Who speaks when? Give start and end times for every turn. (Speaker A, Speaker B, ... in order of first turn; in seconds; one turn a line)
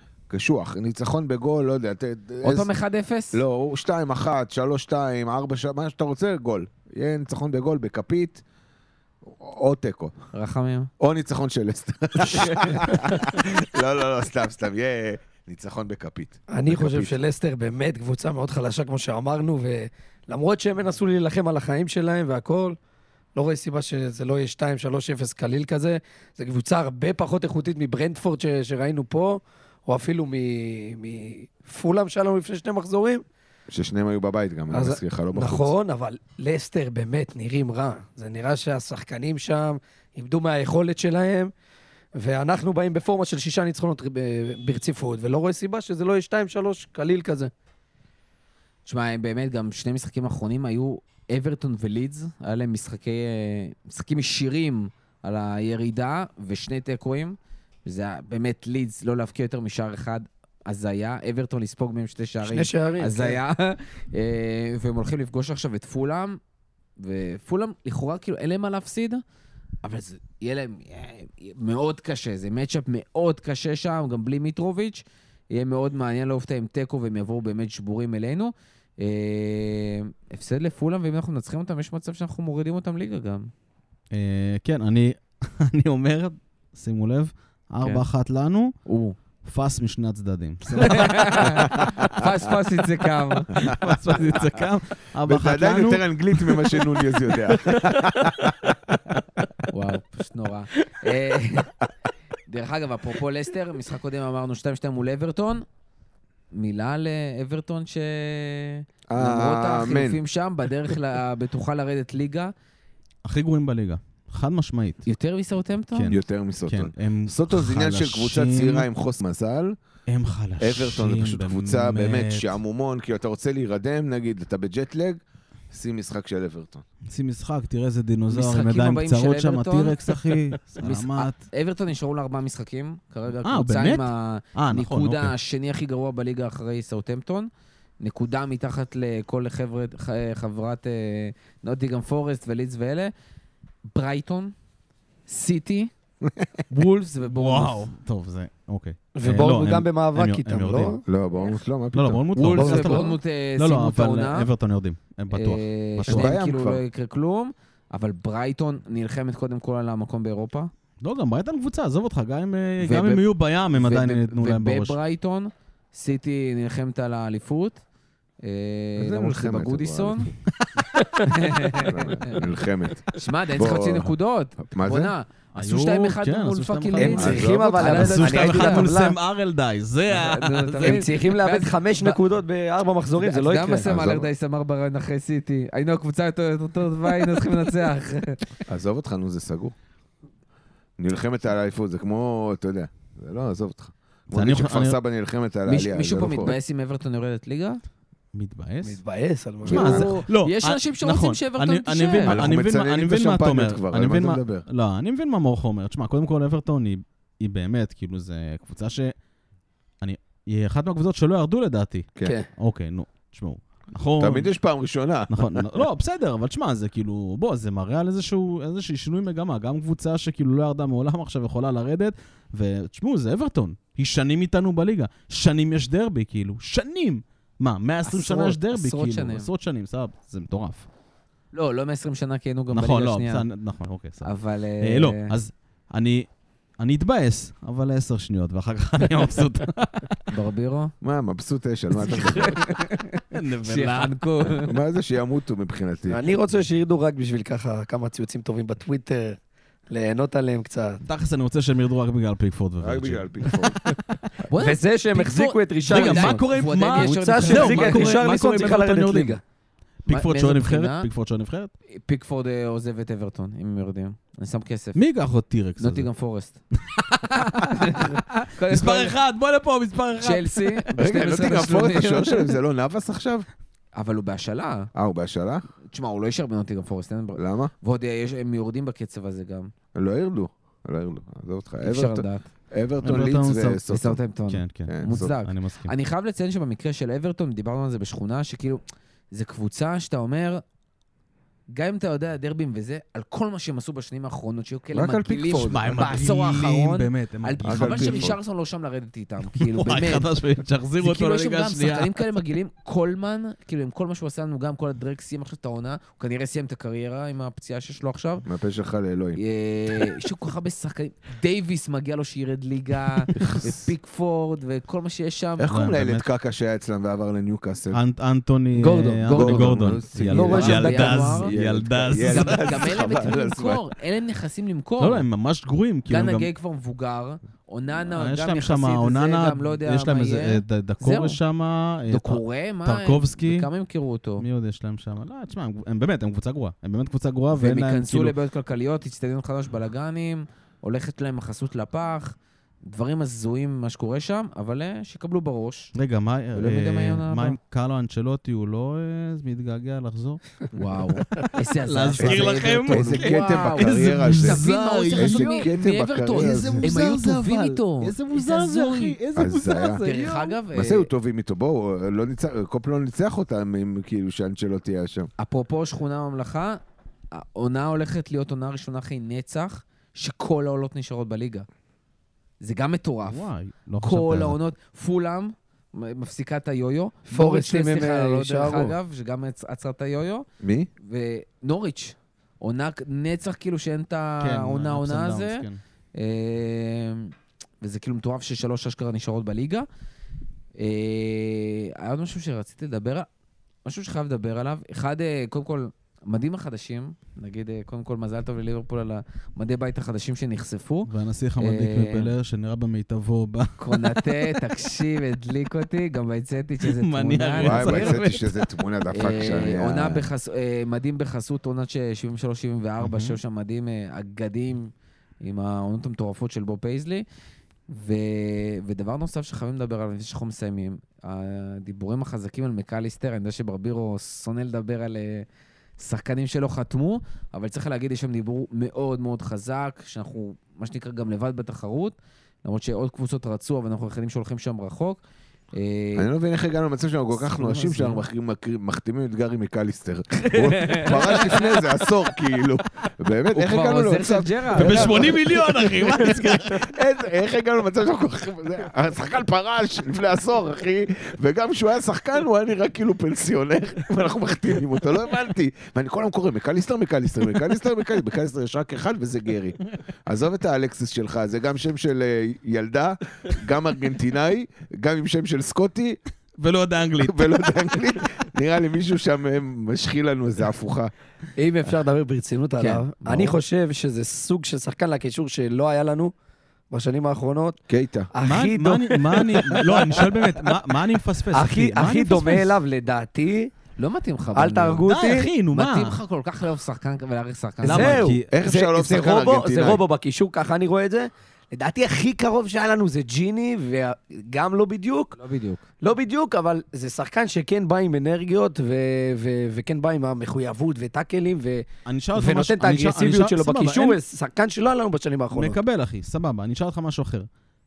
Speaker A: 0.3-2.7
Speaker B: 2.4-3.4
Speaker A: 3.3-8.4
Speaker A: 9.3-10.1
Speaker B: 10.3-10.9
Speaker A: 11.0-17.1
Speaker B: 12.2-12.7
Speaker C: 16.5-22.8
Speaker C: 23.4-33.2
Speaker A: 33.7-35.7
Speaker C: 34.7-41.5
Speaker C: 42.1-47.5
Speaker B: 48.9-66.4
Speaker C: 62.4-63.4
Speaker B: 67.0-69.2
Speaker B: 69.8-83.5
Speaker D: 84.1-88.8
Speaker B: 88.9-89.2
Speaker D: 89.4-91.9
Speaker B: 90.8-94.5
Speaker A: 91.5-92.3
Speaker D: 93.6-96.9
Speaker A: 95.2-99.5
Speaker B: 99.7-101.7
Speaker B: 102.5-105.6
Speaker B: 106.5-112.5
Speaker A: 109.1-110.2
Speaker D: 113.2-115.0
Speaker B: 115.0-116.1
Speaker D: 116.0-118.9
Speaker A: 116.1-119.8
Speaker D: 120.1-122.6
Speaker A: 120.6-126.8
Speaker D: 127.1-131.4
Speaker B: 128.3-137.5
Speaker D: 133.4-135.3
Speaker B: 138.0-143.1
Speaker B: 143.9-144.5
Speaker B: 145.3-145.9
Speaker B: 146.7-147.9
Speaker D: 147.3-151.0
Speaker C: 149.1-151.0
Speaker A: 151.1-152.2
Speaker D: 151.9-156.3
Speaker B: 152.3-154.5
Speaker C: 152.5-153.1
Speaker B: 155.3-160.7
Speaker A: 156.1-156.8
Speaker D: 161.0-165.0
Speaker B: 162.8-167.8
Speaker B: 168.4-170.3
Speaker A: 169.0-170.2
Speaker B: 171.2-172.4
Speaker A: 171.8-175.1
Speaker B: 173.1-178.9
Speaker D: 175.5-181.1
Speaker C: 177.0-179.2
Speaker A: 177.2-177.8
Speaker B: 180.1-182.2
Speaker C: 180.8-184.1
Speaker B: 183.2-188.4
Speaker A: 183.8-184.3
Speaker A: 188.7-189.8
Speaker A: 191.0-196.6
Speaker D: 194.3-195.0
Speaker B: 195.7-197.8
Speaker D: 198.3-199.0
Speaker C: 198.8-200.0
Speaker A: 199.6-200.1
Speaker B: 199.7-202.4
Speaker D: 199.7-209.1
Speaker A: 202.3-204.7
Speaker D: 210.0-214.5
Speaker C: 212.2-212.5
Speaker A: 214.2-215.8
Speaker D: 215.3-230.9
Speaker B: 228.1-229.5
Speaker B: 231.5-233.5
Speaker D: 232.7-236.3
Speaker B: 234.2-235.3
Speaker D: 236.8-240.3
Speaker B: 240.3-240.9
Speaker A: 241.0-242.8
Speaker B: 242.0-244.8
Speaker D: 243.3-244.1
Speaker A: 244.6-246.2
Speaker C: 246.1-251.0
Speaker D: 251.1-253.6
Speaker A: 252.8-253.9
Speaker B: 254.5-258.3
Speaker C: 254.6-259.4
Speaker D: 255.9-259.4
Speaker D: 260.1-261.7
Speaker B: 260.1-261.1
Speaker B: 261.9-265.0
Speaker D: 264.9-266.1
Speaker B: 265.8-266.6
Speaker D: 266.9-268.0
Speaker B: 267.1-269.2
Speaker D: 268.7-270.9
Speaker B: 270.2-272.5
Speaker A: 271.0-273.5
Speaker B: 273.9-274.9
Speaker A: 274.9-275.7
Speaker B: 275.9-279.7
Speaker A: 277.4-277.7
Speaker A: 279.9-284.2
Speaker B: 281.8-282.5
Speaker D: 283.0-285.9
Speaker B: 283.9-290.6
Speaker A: 284.9-285.3
Speaker B: 291.7-300.3
Speaker A: 294.9-295.8
Speaker D: 295.6-298.4
Speaker A: 297.6-298.4
Speaker D: 299.5-302.2
Speaker B: 301.0-308.5
Speaker A: 308.5-309.4
Speaker B: 309.4-315.7
Speaker A: 313.4-313.8
Speaker A: 315.6-318.0
Speaker D: 315.7-316.3
Speaker D: 317.9-322.9
Speaker C: 318.8-319.3
Speaker B: 319.2-321.6
Speaker A: 319.3-323.8
Speaker C: 320.3-321.2
Speaker B: 322.1-325.2
Speaker D: 325.0-326.5
Speaker B: 326.1-331.4
Speaker D: 328.0-333.7
Speaker B: 332.1-334.4
Speaker D: 334.4-338.4
Speaker B: 337.5-345.9
Speaker D: 345.9-350.4
Speaker B: 346.6-347.6
Speaker B: 350.7-359.2
Speaker D: 351.3-355.7
Speaker A: 352.2-354.6
Speaker A: 355.1-357.0
Speaker D: 356.3-360.6
Speaker A: 359.4-360.1
Speaker B: 360.0-361.1
Speaker A: 360.7-365.3
Speaker B: 365.4-366.8
Speaker B: 367.3-371.6
Speaker B: 372.6-373.5
Speaker D: 373.3-374.6
Speaker B: 374.0-380.5
Speaker C: 377.3-379.0
Speaker A: 380.6-380.9
Speaker B: 381.0-385.6
Speaker D: 384.4-385.8
Speaker B: 386.1-389.9
Speaker B: 390.8-393.3
Speaker B: 393.9-402.3
Speaker D: 401.1-404.6
Speaker B: 403.8-408.3
Speaker D: 406.8-408.6
Speaker A: 407.6-410.3
Speaker B: 409.1-414.9
Speaker D: 413.0-413.4
Speaker B: 415.4-417.3
Speaker B: 417.9-425.4
Speaker B: 426.0-435.2
Speaker B: 435.7-436.3
Speaker A: 436.2-445.9
Speaker B: 437.4-438.2
Speaker D: 437.8-438.1
Speaker B: 440.4-442.0
Speaker B: 443.5-445.3
Speaker D: 444.8-446.9
Speaker A: 446.7-466.2
Speaker D: 466.6-467.9
Speaker A: 467.2-471.1
Speaker C: 471.6-476.3
Speaker B: 472.8-473.5
Speaker C: 476.9-477.8
Speaker A: 477.9-478.3
Speaker C: 478.3-480.7
Speaker D: 478.4-482.8
Speaker C: 481.5-483.7
Speaker B: 484.0-485.1
Speaker C: 484.5-485.5
Speaker D: 485.1-486.2
Speaker B: 485.7-488.3
Speaker C: 487.8-495.4
Speaker D: 487.9-488.5
Speaker A: 488.5-490.0
Speaker B: 495.4-495.9
Speaker C: 496.0-505.8
Speaker D: 502.1-504.2
Speaker D: 505.5-507.5